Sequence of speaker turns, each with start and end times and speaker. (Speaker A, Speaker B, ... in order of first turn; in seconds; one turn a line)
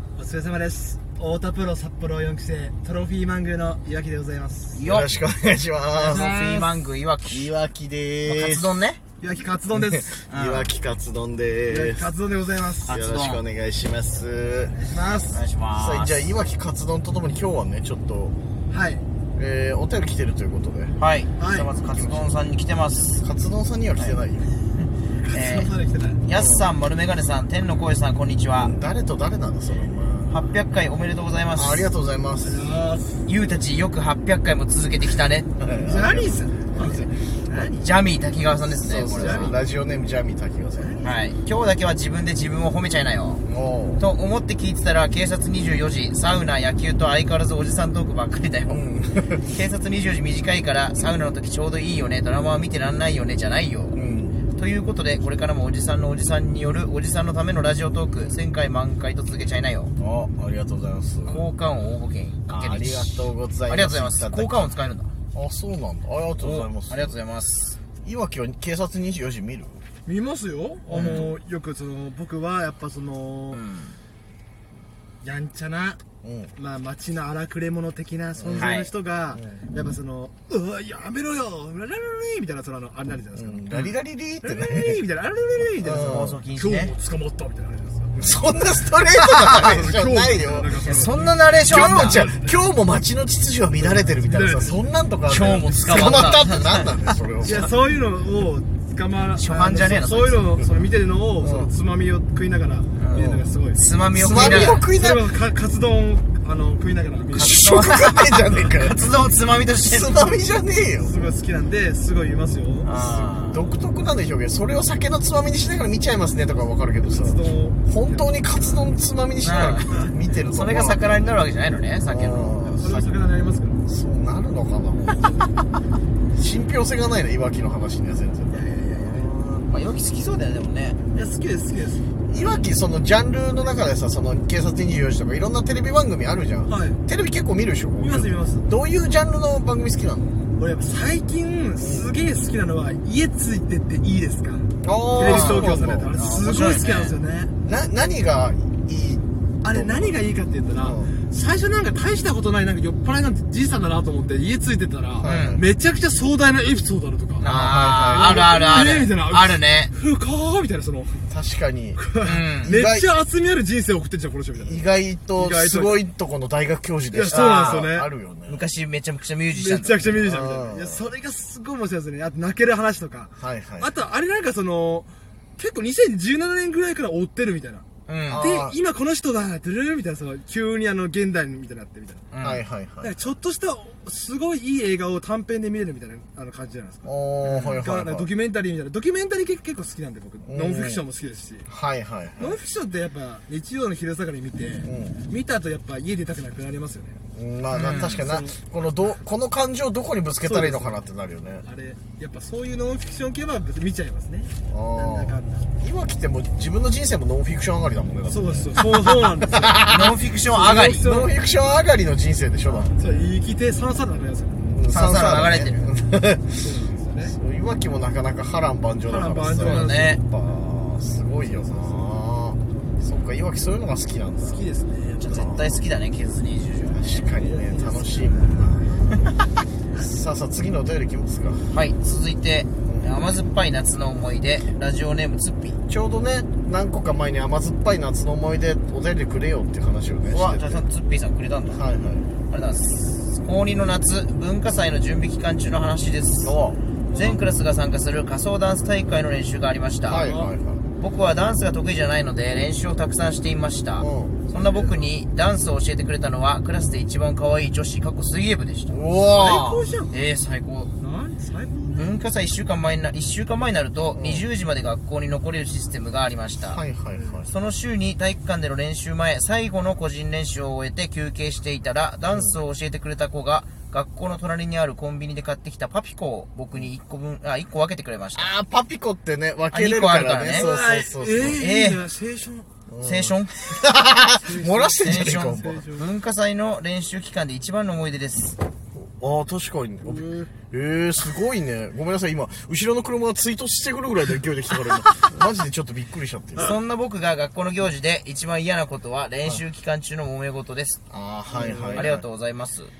Speaker A: 0.1-4.8
Speaker B: 4.7-5.1
Speaker C: 4.8-6.3
Speaker A: 6.0-6.7
Speaker B: 6.0-7.5
Speaker C: 7.2-8.8
Speaker B: 8.2-9.0
Speaker A: 9.2-10.2
Speaker C: 9.7-12.1
Speaker B: 10.3-10.7
Speaker A: 11.7-12.9
Speaker C: 12.8-14.7
Speaker B: 12.9-13.4
Speaker A: 14.7-15.4
Speaker B: 15.3-16.3
Speaker C: 15.7-18.4
Speaker A: 18.7-19.0
Speaker C: 19.4-20.9
Speaker B: 21.0-23.2
Speaker A: 21.4-21.7
Speaker C: 21.9-22.2
Speaker C: 23.2-24.5
Speaker B: 24.7-25.7
Speaker A: 25.3-26.2
Speaker B: 26.2-28.7
Speaker C: 26.3-26.7
Speaker C: 28.6-30.4
Speaker B: 30.3-31.9
Speaker C: 31.5-32.6
Speaker A: 32.4-33.2
Speaker B: 33.2-35.5
Speaker C: 35.6-37.7
Speaker A: 35.8-37.9
Speaker B: 37.8-39.6
Speaker C: 38.8-41.0
Speaker A: 39.1-39.5
Speaker A: 40.8-41.2
Speaker B: 41.0-43.4
Speaker C: 43.5-44.0
Speaker B: 44.0-48.8
Speaker C: 48.7-49.4
Speaker B: 49.4-54.0
Speaker C: 53.9-54.4
Speaker B: 54.5-59.9
Speaker C: 60.0-61.5
Speaker B: 61.3-65.1
Speaker C: 62.5-64.7
Speaker C: 65.3-67.1
Speaker B: 66.4-67.8
Speaker C: 68.0-69.8
Speaker A: 70.0-73.6
Speaker B: 70.9-71.3
Speaker C: 70.9-71.3
Speaker B: 73.5-74.0
Speaker A: 75.2-76.0
Speaker C: 76.2-76.5
Speaker A: 76.6-83.7
Speaker C: 78.4-78.7
Speaker B: 78.5-78.9
Speaker C: 83.3-85.0
Speaker A: 84.4-88.4
Speaker C: 85.8-86.4
Speaker B: 85.9-86.9
Speaker C: 88.2-90.7
Speaker B: 89.2-89.6
Speaker A: 89.6-92.5
Speaker B: 90.8-92.3
Speaker C: 91.6-97.7
Speaker A: 93.8-94.8
Speaker B: 95.3-97.7
Speaker A: 97.4-107.6
Speaker B: 99.4-100.4
Speaker C: 101.4-101.7
Speaker B: 103.0-104.8
Speaker C: 103.1-103.4
Speaker C: 104.1-105.3
Speaker B: 107.3-110.4
Speaker C: 107.3-109.0
Speaker C: 109.8-111.2
Speaker A: 111.0-112.9
Speaker B: 112.8-113.7
Speaker C: 113.0-121.1
Speaker A: 117.0-118.3
Speaker B: 119.4-122.7
Speaker C: 122.1-123.1
Speaker A: 122.8-123.8
Speaker C: 123.8-125.3
Speaker C: 126.3-129.7
Speaker A: 128.5-129.3
Speaker B: 129.7-131.0
Speaker A: 131.1-132.2
Speaker C: 132.3-140.3
Speaker B: 132.3-132.6
Speaker A: 136.7-137.0
Speaker A: 138.0-138.7
Speaker A: 140.6-147.5
Speaker C: 141.8-142.1
Speaker C: 144.8-146.1
Speaker B: 145.2-145.6
Speaker B: 146.2-147.1
Speaker C: 147.6-150.1
Speaker A: 149.6-157.5
Speaker C: 150.8-151.1
Speaker C: 155.2-155.6
Speaker B: 155.2-155.6
Speaker B: 157.4-159.9
Speaker C: 157.4-158.7
Speaker A: 158.1-161.2
Speaker C: 161.3-162.1
Speaker A: 162.0-166.0
Speaker B: 162.2-162.7
Speaker C: 162.6-163.1
Speaker C: 164.6-168.6
Speaker A: 167.1-168.1
Speaker B: 167.3-167.9
Speaker B: 168.5-170.1
Speaker A: 169.5-182.2
Speaker C: 170.1-171.0
Speaker C: 173.4-173.9
Speaker B: 178.1-178.5
Speaker C: 178.3-178.8
Speaker B: 182.3-182.6
Speaker C: 182.4-183.1
Speaker A: 183.0-187.1
Speaker C: 187.0-188.3
Speaker B: 187.4-187.8
Speaker A: 187.8-191.7
Speaker C: 190.4-191.0
Speaker C: 191.7-192.6
Speaker A: 192.4-197.2
Speaker C: 194.8-195.2
Speaker C: 197.3-201.6
Speaker B: 197.7-198.3
Speaker A: 198.0-198.6
Speaker A: 200.4-201.1
Speaker A: 201.6-205.7
Speaker C: 204.7-213.2
Speaker A: 208.3-211.3
Speaker B: 209.8-211.1
Speaker A: 212.9-214.8
Speaker C: 214.7-216.6
Speaker B: 214.9-215.9
Speaker A: 216.5-217.3
Speaker C: 217.2-224.6
Speaker A: 219.1-220.2
Speaker B: 219.6-220.2
Speaker A: 224.4-225.5
Speaker B: 225.2-227.2
Speaker C: 225.2-225.8
Speaker C: 226.9-229.2
Speaker A: 227.2-229.2
Speaker C: 229.9-231.7
Speaker B: 231.7-235.8
Speaker C: 232.9-233.1
Speaker C: 235.9-240.8
Speaker B: 240.3-241.8
Speaker C: 241.7-242.3
Speaker B: 242.5-246.5
Speaker C: 246.4-246.8
Speaker A: 247.1-247.4
Speaker B: 247.1-250.3
Speaker C: 250.1-250.8
Speaker A: 250.2-250.5
Speaker B: 251.0-259.0
Speaker C: 254.0-254.4
Speaker A: 254.5-255.1
Speaker C: 258.9-259.8
Speaker A: 259.3-260.2
Speaker B: 260.1-260.9
Speaker A: 261.0-262.1
Speaker B: 261.9-266.8
Speaker C: 264.1-264.4
Speaker C: 266.6-267.5
Speaker A: 267.1-267.4
Speaker B: 267.5-278.5
Speaker C: 272.3-272.6
Speaker C: 278.3-281.6
Speaker B: 279.7-280.7
Speaker A: 280.5-282.7
Speaker B: 281.6-282.0
Speaker C: 282.9-285.8
Speaker B: 283.0-283.6
Speaker A: 284.4-286.1
Speaker B: 285.0-288.6
Speaker C: 288.9-296.8
Speaker B: 296.6-301.0
Speaker C: 301.1-302.2
Speaker A: 301.5-302.1
Speaker B: 301.7-302.9